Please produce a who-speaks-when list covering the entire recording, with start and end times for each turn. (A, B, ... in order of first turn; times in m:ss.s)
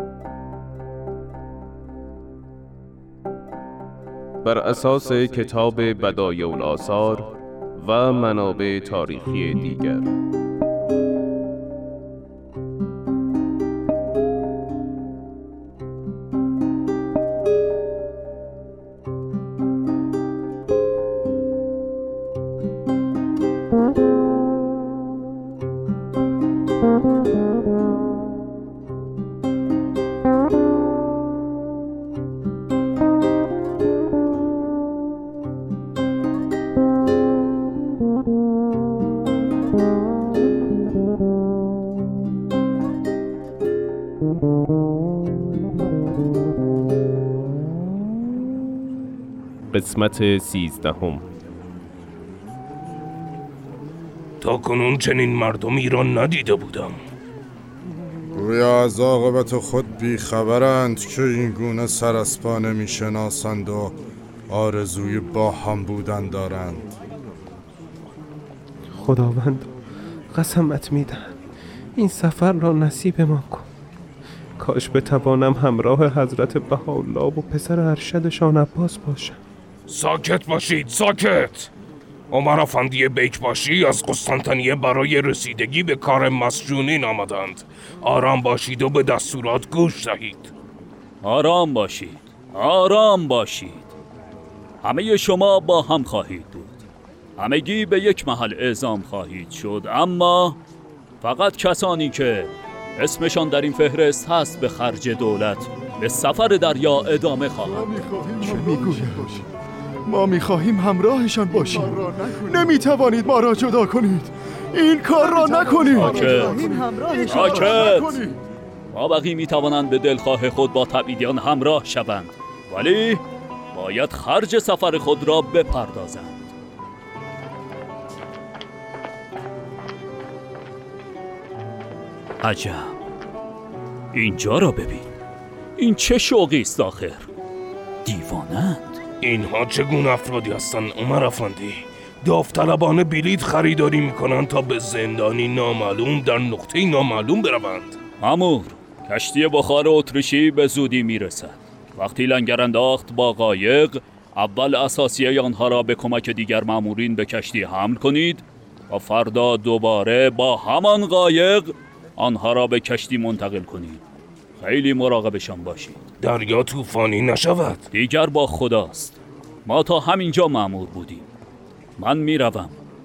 0:04.4-0:07.2 A
0:07.8-0:10.0 A
0:49.7-0:51.2 A
0:54.4-0:57.0 B
0:58.3-1:04.0 C
1:04.5-1:06.9 C
1:08.9-1:09.7 D
1:10.3-1:11.3 D
1:11.9-1:13.7 D
1:14.6-1:19.4 D
1:19.9-1:21.7 B
1:22.3-1:30.5 B
1:31.2-1:33.9 E
1:34.8-1:36.8 E
1:37.4-1:40.6 E
1:41.2-1:47.9 E
1:48.0-1:49.4 F
1:50.1-1:58.2 F
1:55.3-1:58.2 E
1:58.9-2:03.2 E
2:03.7-2:06.5 E
2:12.4-2:12.9 E
2:14.1-2:15.1 E
2:15.8-2:17.3 E
2:18.0-2:19.0 E
2:19.2-2:28.0 B
2:28.2-2:44.0 E
2:44.6-2:46.0 E
2:46.2-2:47.8 B
2:47.9-2:51.2 E
2:52.0-2:52.7 E